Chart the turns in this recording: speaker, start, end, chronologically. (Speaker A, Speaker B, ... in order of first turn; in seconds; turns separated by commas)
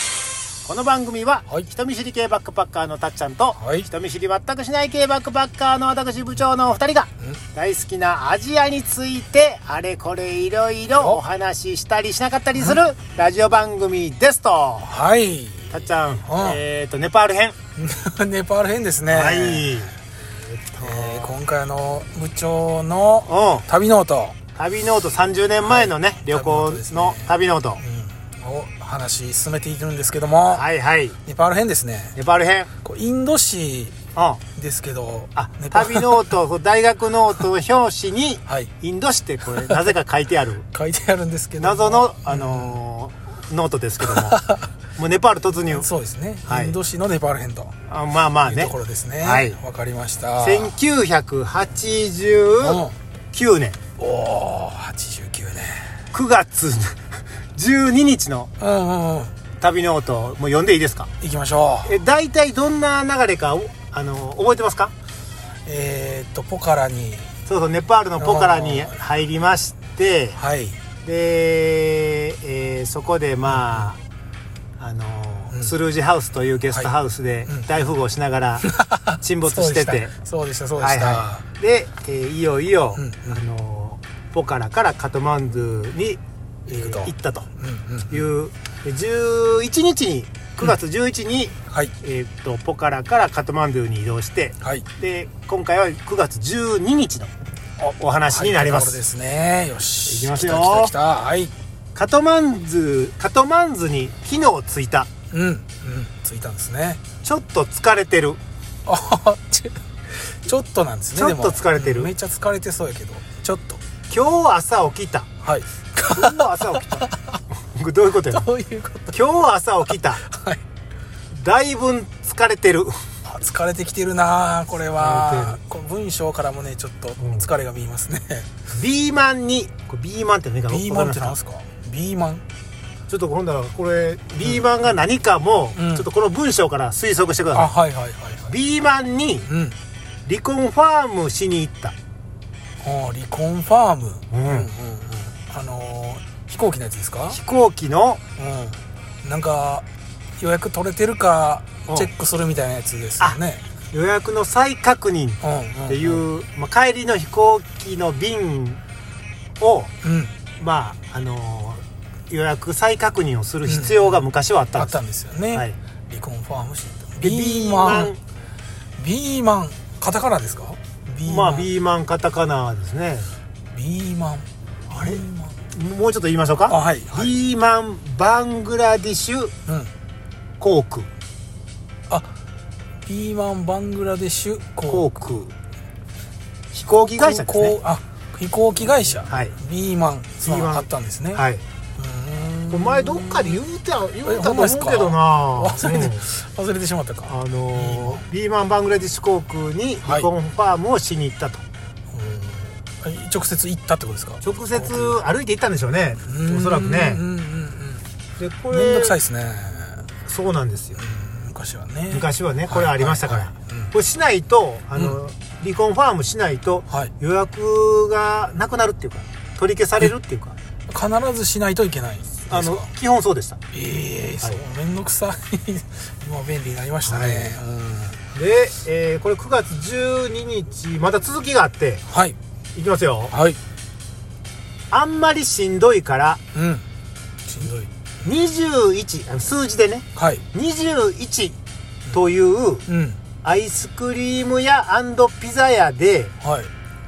Speaker A: 0.6-14.9, Speaker B: 3.6-3.9, Speaker B: 14.8-16.6, Speaker A: 15.7-17.6, Speaker B: 17.8-19.9, Speaker A: 19.1-21.3, Speaker B: 20.8-24.4, Speaker A: 23.3-23.7, Speaker A: 24.5-27.8, Speaker B: 25.6-30.6, Speaker A: 30.5-31.2, Speaker B: 31.2-32.1, Speaker A: 32.1-32.7, Speaker B: 32.8-34.0, Speaker A: 34.1-34.4, Speaker B: 34.5-36.2, Speaker A: 35.4-40.6, Speaker B: 38.5-38.7, Speaker B: 39.6-39.9, Speaker B: 40.7-42.8, Speaker A: 41.6-44.4, Speaker B: 44.0-44.7, Speaker A: 45.0-45.9, Speaker B: 45.7-47.7, Speaker A: 46.5-46.8, Speaker A: 47.9-49.6, Speaker B: 48.4-50.7, Speaker A: 50.4-53.8, Speaker B: 52.6-52.9, Speaker B: 54.0-55.9, Speaker A: 56.1-57.0, Speaker A: 57.5-58.5, Speaker B: 58.6-59.3, Speaker A: 59.6-61.1, Speaker B: 61.2-62.0, Speaker A: 61.8-64.9, Speaker B: 65.6-67.3, Speaker A: 67.5-70.4, Speaker B: 68.2-69.0, Speaker B: 70.3-70.8, Speaker A: 71.0-74.0, Speaker B: 73.5-73.8, Speaker A: 74.8-80.1, Speaker B: 77.5-77.8, Speaker B: 78.6-81.4, Speaker A: 80.8-87.5, Speaker B: 83.0-83.4, Speaker B: 86.7-88.2, Speaker A: 88.1-99.0, Speaker B: 98.3-101.5, Speaker A: 100.0-100.9, Speaker A: 101.9-105.1, Speaker B: 105.3-107.0, Speaker A: 107.2-108.4, Speaker B: 108.8-113.8, Speaker A: 111.1-112.1, Speaker A: 114.1-115.3, Speaker B: 115.4-117.4, Speaker A: 116.1-118.5, Speaker B: 118.3-119.2, Speaker A: 119.1-120.2, Speaker B: 119.9-120.6, Speaker A: 121.3-122.9, Speaker B: 123.2-128.5, Speaker A: 125.0-125.6, Speaker A: 127.2-127.4, Speaker A: 128.7-131.3, Speaker B: 130.7-132.4, Speaker A: 133.1-137.7, Speaker B: 135.8-136.1, Speaker B: 137.5-138.5, Speaker A: 138.5-139.5, Speaker B: 139.5-139.8, Speaker A: 140.2-141.9, Speaker B: 142.8-147.4, Speaker A: 144.3-144.7, Speaker A: 147.3-148.2, Speaker B: 148.4-149.8, Speaker B: 150.4-153.6, Speaker A: 153.9-158.8, Speaker B: 155.4-156.2, Speaker A: 159.6-159.9, Speaker B: 160.0-160.3, Speaker A: 160.6-165.0, Speaker B: 163.7-164.2, Speaker B: 164.8-168.1, Speaker A: 167.2-168.2, Speaker B: 169.0-171.7, Speaker A: 171.2-173.3, Speaker B: 173.7-175.6, Speaker A: 174.9-179.5, Speaker B: 176.7-177.3, Speaker B: 179.7-179.9, Speaker A: 180.6-181.1, Speaker B: 183.0-185.1, Speaker A: 184.9-185.5, Speaker A: 186.7-187.8, Speaker B: 187.2-191.4, Speaker A: 189.3-189.6, Speaker A: 190.4-191.6, Speaker B: 192.0-193.6, Speaker A: 192.7-196.2, Speaker B: 194.2-198.2, Speaker A: 197.3-201.6, Speaker B: 202.1-205.2, Speaker A: 204.4-207.2, Speaker B: 206.3-208.1, Speaker A: 208.4-209.2, Speaker B: 208.7-210.1, Speaker A: 210.2-211.0, Speaker B: 211.0-213.9, Speaker A: 212.1-220.6, Speaker B: 220.9-222.9, Speaker A: 222.5-223.6, Speaker B: 223.7-228.2, Speaker A: 227.1-227.5, Speaker A: 228.3-232.0, Speaker B: 232.1-232.4, Speaker A: 232.7-233.3, Speaker B: 233.3-233.6, Speaker A: 234.9-236.4, Speaker B: 236.5-236.8, Speaker B: 237.4-237.9, Speaker A: 238.2-241.6, Speaker B: 240.2-240.4, Speaker A: 242.1-242.9, Speaker B: 242.9-243.2, Speaker A: 243.4-246.3, Speaker B: 246.4-246.7